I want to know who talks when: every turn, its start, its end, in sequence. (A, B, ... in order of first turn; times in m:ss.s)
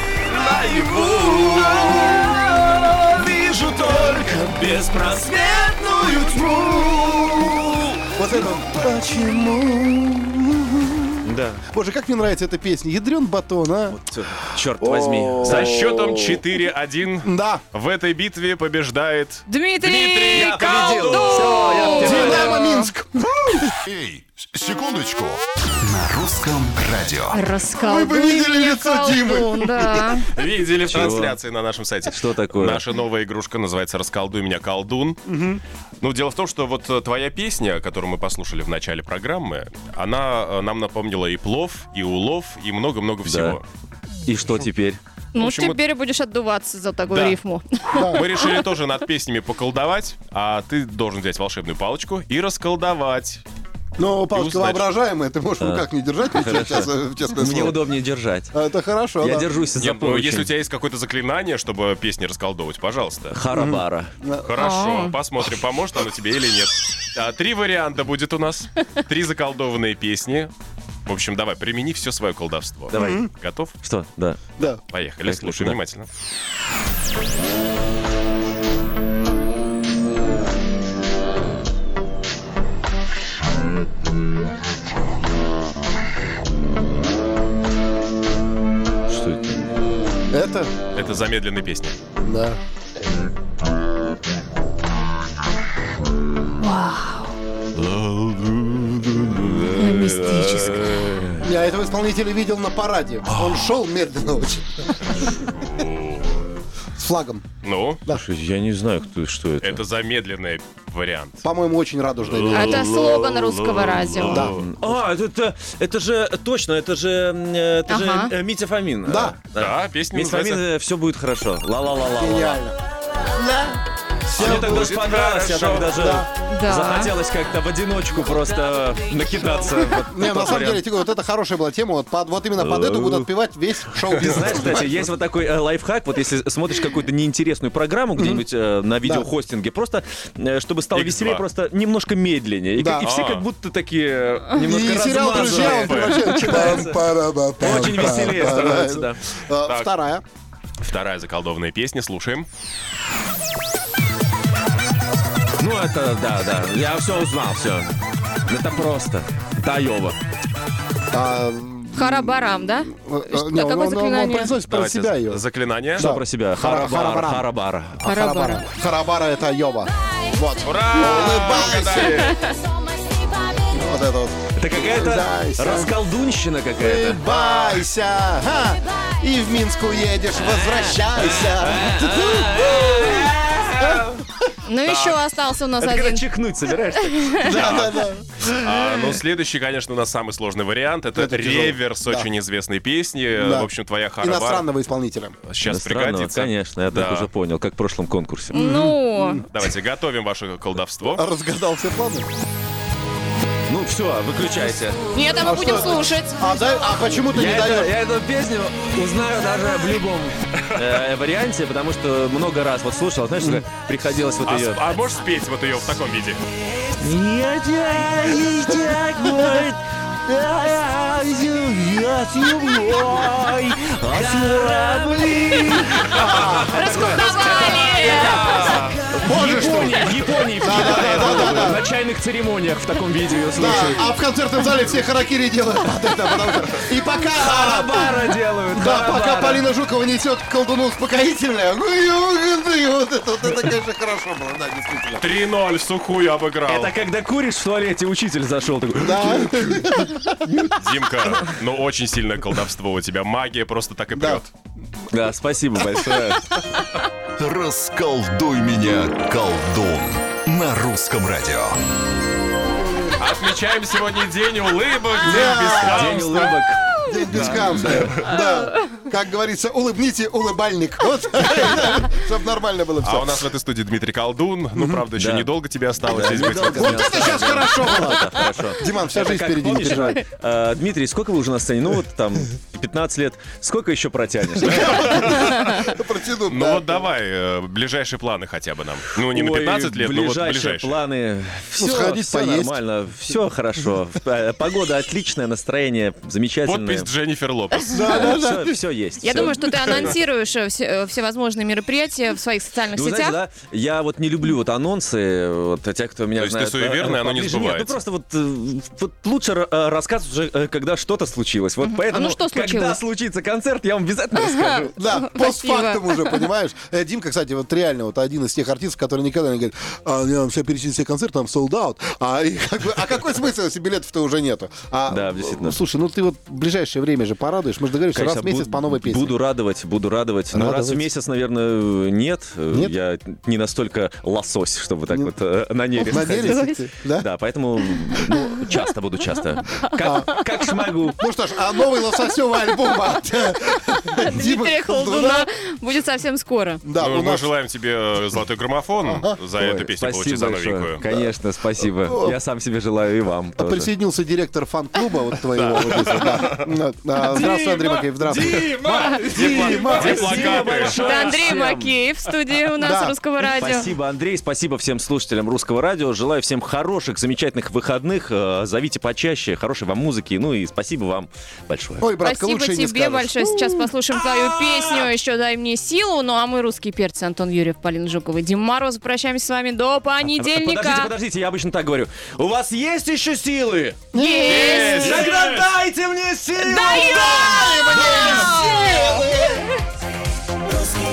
0:00.2-0:08.6 A
0:01.6-0:02.2 B
0:03.8-0:04.4 B
0:08.1-0:14.0 B
0:11.2-0:11.6 A
0:13.9-0:15.8 A
0:14.8-0:16.4 B
0:15.4-0:19.4 C
0:17.2-0:17.6 B
0:19.5-0:22.9 D
0:19.8-0:22.6 A
0:20.0-0:21.4 C
0:22.0-0:23.7 B
0:23.8-0:27.4 E
0:27.3-0:30.3 D
0:27.8-0:30.1 B
0:30.3-0:35.2 C
0:30.9-0:31.4 A
0:32.1-0:32.8 A
0:35.2-0:35.6 B
0:36.0-0:43.6 C
0:43.2-0:43.6 A
0:44.2-0:45.0 A
0:45.3-0:48.6 D
0:45.4-0:45.8 C
0:47.1-0:47.4 C
0:48.0-0:48.2 B
0:48.1-0:53.4 C
0:54.0-0:57.8 B
0:54.3-0:54.9 C
0:55.6-0:58.5 A
0:58.5-0:59.5 B
0:59.2-1:00.5 A
0:59.8-1:03.4 C
1:03.3-1:04.1 A
1:03.5-1:04.5 B
1:04.5-1:10.5 C
1:04.6-1:05.1 D
1:11.0-1:13.8 C
1:12.9-1:13.3 A
1:12.9-1:13.3 B
1:13.8-1:14.4 A
1:14.6-1:16.1 C
1:15.2-1:15.8 A
1:29.1-1:29.7 A
1:30.3-1:30.7 B
1:30.9-1:32.0 C
1:32.2-1:32.6 B
1:36.8-1:37.1 D
1:37.8-1:41.5 A
1:39.8-1:40.8 D
1:41.4-1:45.2 B
1:43.3-1:43.7 A
1:45.2-1:46.4 C
1:47.0-1:47.4 B
1:47.6-1:48.0 C
1:48.1-1:49.8 A
1:49.6-1:51.4 C
1:51.4-1:52.8 B
1:52.2-1:54.6 C
1:52.5-1:54.4 D
1:54.3-1:54.6 B
1:54.3-2:02.6 A
1:57.9-1:58.3 D
1:59.0-1:59.4 B
1:59.6-2:00.6 C
2:02.0-2:02.8 B
2:03.3-2:05.0 B
2:04.3-2:06.0 C
2:04.3-2:10.8 A
2:05.8-2:06.3 B
2:06.4-2:07.1 D
2:10.1-2:15.1 B
2:12.6-2:13.3 A
2:14.2-2:27.0 A
2:18.2-2:18.4 B
2:19.0-2:19.3 B
2:20.9-2:21.4 C
2:22.8-2:23.0 B
2:23.0-2:23.5 C
2:24.6-2:30.2 B
2:25.3-2:26.3 C
2:27.6-2:29.2 A
2:28.2-2:28.8 C
2:29.6-2:29.9 C
2:30.8-2:32.5 C
2:35.6-2:37.9 A
2:38.5-2:40.2 A
2:41.1-2:45.4 B
2:42.0-2:44.6 D
2:44.6-2:46.0 C
2:46.0-2:47.5 B
2:46.0-2:48.0 A
2:48.0-2:52.2 B
2:48.0-2:48.6 D
2:50.6-2:52.3 C
2:52.0-2:52.6 D
2:53.7-2:55.9 B
2:54.6-2:57.2 A
2:56.8-3:03.1 B
3:00.4-3:04.2 A
3:03.8-3:04.2 B
3:04.7-3:06.3 D
3:04.8-3:05.2 C
3:05.8-3:07.7 A
3:07.0-3:07.6 D
3:07.4-3:08.4 B
3:07.6-3:07.9 C
3:08.6-3:14.7 C
3:11.2-3:12.3 B
3:13.4-3:15.4 B
3:15.4-3:17.3 C
3:15.7-3:18.6 A
3:18.5-3:19.5 D
3:18.5-3:19.5 B
3:19.5-3:21.2 C
3:21.1-3:22.3 B
3:23.7-3:25.0 A
3:25.1-3:27.0 D
3:25.4-3:27.9 B
3:27.2-3:34.8 A
3:33.4-3:33.7 B
3:34.4-3:36.4 C
3:36.9-3:54.1 A
3:42.4-3:42.9 B
3:46.0-3:47.0 B
3:46.6-3:48.7 D
3:48.4-3:48.9 C
3:49.2-3:51.8 B
3:53.6-4:05.3 B
3:57.3-3:59.6 A
4:05.2-4:06.9 C
4:06.7-4:09.9 A
4:09.0-4:10.4 B
4:10.5-4:11.5 A
4:10.8-4:14.5 C
4:14.1-4:14.4 B
4:15.1-4:16.5 A
4:17.4-4:21.8 E
4:23.2-4:26.6 C
4:25.2-4:26.3 B
4:25.7-4:28.1 A
4:27.1-4:33.4 B
4:27.3-4:28.2 C
4:28.2-4:29.0 D
4:33.0-4:37.1 C
4:34.8-4:35.0 B
4:35.2-4:35.5 A
4:36.0-4:45.3 A
4:36.1-4:40.2 B
4:44.6-4:47.1 B
4:45.1-4:45.7 C
4:46.5-4:51.0 C
4:49.3-4:57.1 A
4:51.8-4:52.8 B
4:56.6-4:58.3 C
4:57.9-4:58.8 B
4:58.0-5:00.1 A
4:58.0-4:58.3 D
4:59.2-5:03.4 D
5:02.9-5:14.9 A
5:06.4-5:08.0 C
5:11.8-5:13.0 D
5:15.0-5:29.4 B
5:15.2-5:16.5 D
5:25.1-5:25.8 A
5:28.1-5:41.2 A
5:30.5-5:31.1 B
5:36.0-5:36.8 D
5:36.0-5:37.3 B
5:38.0-5:38.5 D
5:39.8-5:40.8 D
5:40.0-5:40.3 B
5:41.2-5:45.5 B
5:41.9-5:43.0 D
5:44.1-5:46.8 D
5:46.8-5:47.5 B
5:47.0-5:51.0 C
5:49.0-5:49.4 B
5:49.6-5:53.9 A
5:51.0-5:52.4 B
5:53.6-6:00.7 B
5:55.5-5:56.8 C
5:57.3-5:58.0 D
5:58.2-6:02.0 A
5:58.4-6:01.2 C
5:58.9-5:59.6 D
6:00.8-6:03.9 D
6:02.8-6:03.2 B
6:03.6-6:12.1 A
6:12.0-6:13.9 B
6:12.2-6:21.1 D
6:14.2-6:15.0 A
6:20.3-6:27.4 A
6:24.1-6:25.2 B
6:24.1-6:25.3 D
6:24.5-6:25.6 C
6:26.6-6:29.6 D
6:26.8-6:29.6 B